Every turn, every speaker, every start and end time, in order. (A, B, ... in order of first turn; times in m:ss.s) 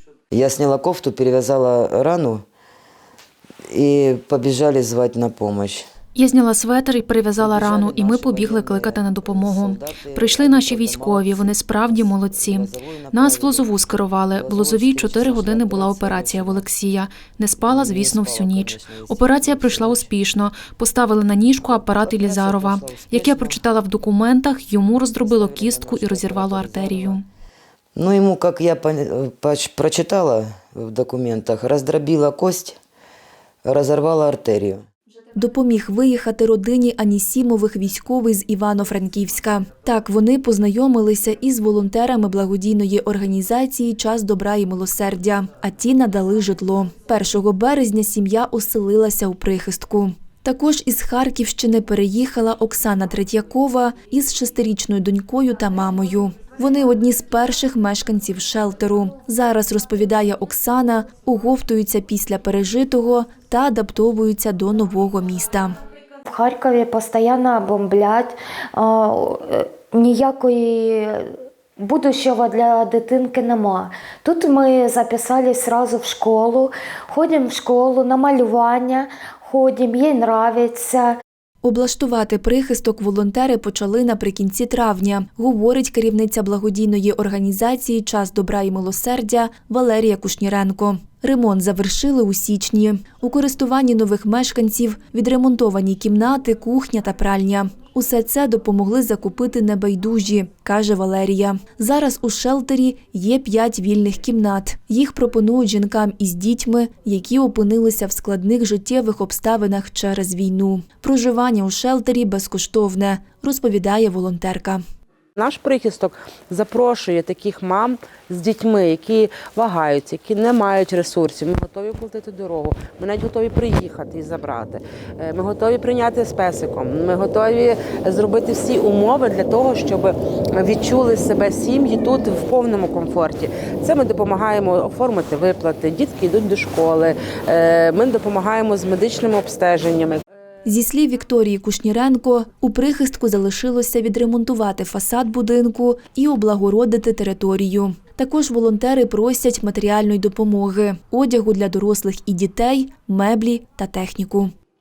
0:00.3-0:02.4 A
0:03.7-0:05.9 A
0:06.1-0:27.2 B
0:07.3-0:16.7 A
0:17.6-0:20.1 A
0:21.6-0:23.6 A
0:25.2-0:27.2 A
0:27.9-0:32.8 A
0:33.6-0:34.8 A
0:35.4-1:05.8 C
1:06.3-1:21.2 D
1:21.6-1:54.8 C
1:55.4-2:20.2 E
2:20.6-2:34.5 C